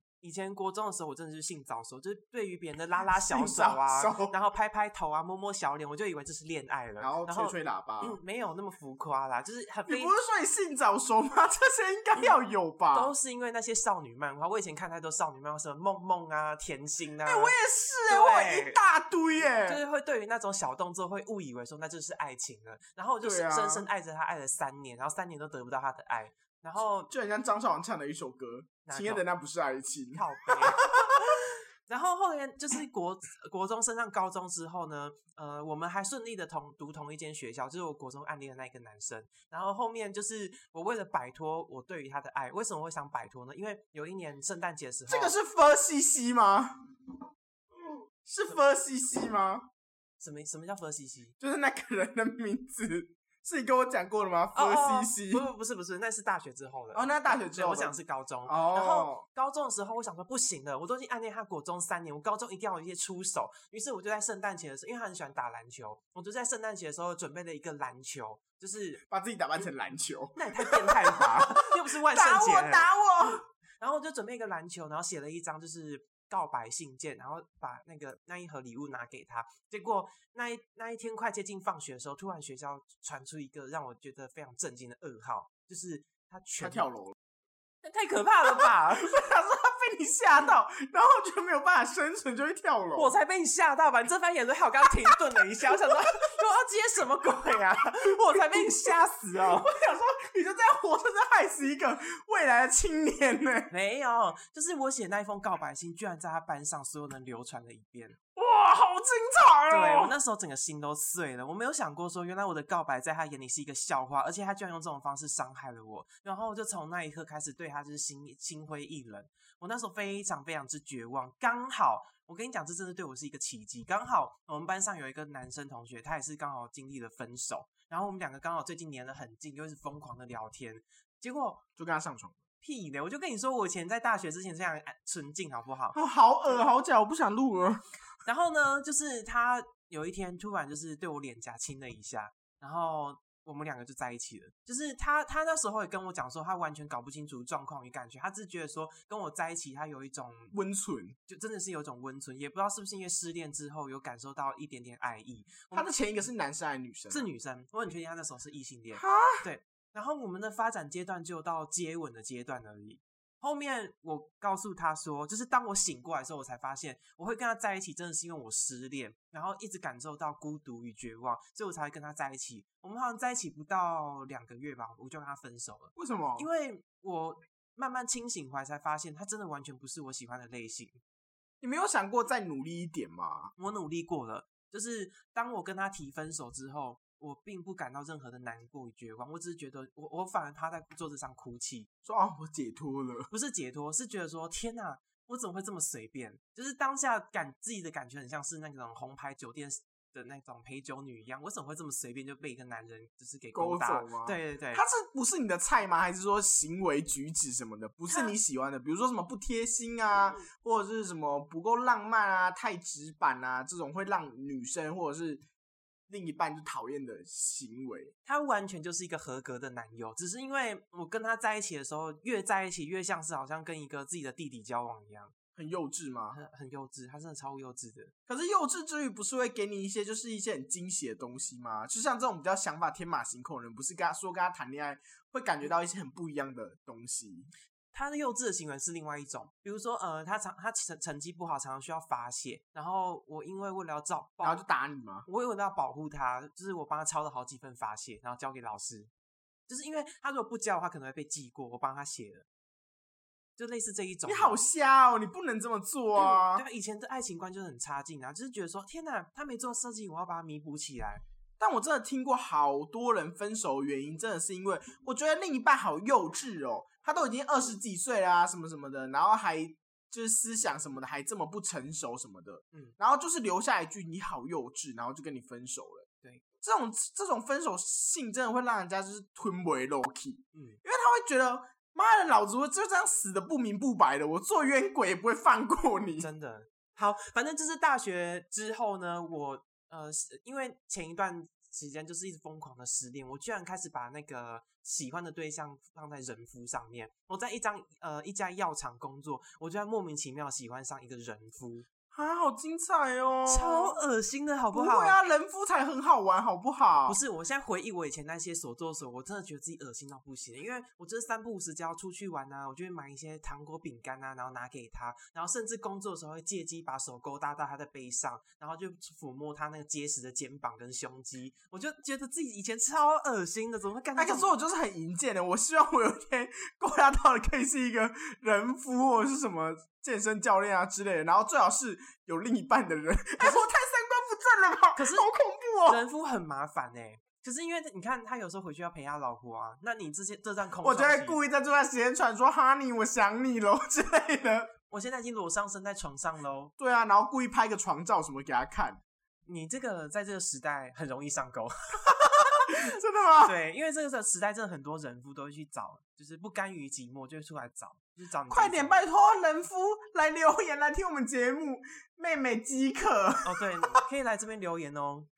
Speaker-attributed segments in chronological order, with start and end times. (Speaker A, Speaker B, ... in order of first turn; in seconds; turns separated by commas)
Speaker A: 0.2-10.1, Speaker B: 3.2-4.3, Speaker B: 7.0-8.2, Speaker B: 9.9-13.1, Speaker A: 12.9-17.6, Speaker B: 17.2-19.8, Speaker A: 18.1-18.8, Speaker A: 19.6-27.1, Speaker B: 23.2-23.9, Speaker B: 27.1-31.4, Speaker A: 28.9-29.2, Speaker A: 30.1-45.3, Speaker B: 45.1-46.8, Speaker B: 48.2-49.7, Speaker A: 50.2-51.3, Speaker B: 51.4-55.4, Speaker A: 54.5-69.0, Speaker B: 56.9-57.9, Speaker B: 58.5-59.2, Speaker B: 69.1-73.4, Speaker A: 70.3-86.9, Speaker B: 86.6-87.2, Speaker A: 87.8-89.2, Speaker B: 88.6-93.1, Speaker A: 93.0-99.8, Speaker B: 99.4-103.7, Speaker A: 103.7-108.2, Speaker B: 108.3-110.1, Speaker A: 109.7-131.6, Speaker B: 131.8-132.4, Speaker A: 132.6-136.0, Speaker B: 135.9-137.8, Speaker A: 138.2-150.5, Speaker B: 150.5-151.2, Speaker A: 151.3-155.9, Speaker B: 155.7-157.2, Speaker A: 157.1-181.0, Speaker B: 159.0-159.4, Speaker B: 175.9-176.5, Speaker B: 181.6-183.5, Speaker A: 183.6-191.9, Speaker B: 192.1-193.3, Speaker A: 193.3-204.8, Speaker B: 203.5-215.4, Speaker B: 216.1-218.1, Speaker A: 218.2-225.3, Speaker B: 225.6-226.4, Speaker A: 226.3-228.1, Speaker B: 228.3-237.5, Speaker A: 237.9-244.6, Speaker B: 244.4-245.2, Speaker A: 245.2-249.1, Speaker A: 249.7-252.4, Speaker A: 253.6-254.6, Speaker B: 254.3-256.6, Speaker A: 256.2-261.2, Speaker B: 261.6-276.1, Speaker B: 276.6-286.3, Speaker A: 280.5-280.8, Speaker A: 286.2-301.9, Speaker B: 302.1-303.9, Speaker A: 303.5-305.2, Speaker B: 304.7-307.2, Speaker A: 307.1-324.5, Speaker B: 324.2-336.0, Speaker A: 334.9-335.3, Speaker A: 335.9-341.4, Speaker B: 340.8-344.7, Speaker A: 344.9-346.7, Speaker B: 346.8-349.0, Speaker A: 349.4-359.0, Speaker B: 352.7-353.5, Speaker B: 358.5-363.6, Speaker A: 363.4-365.3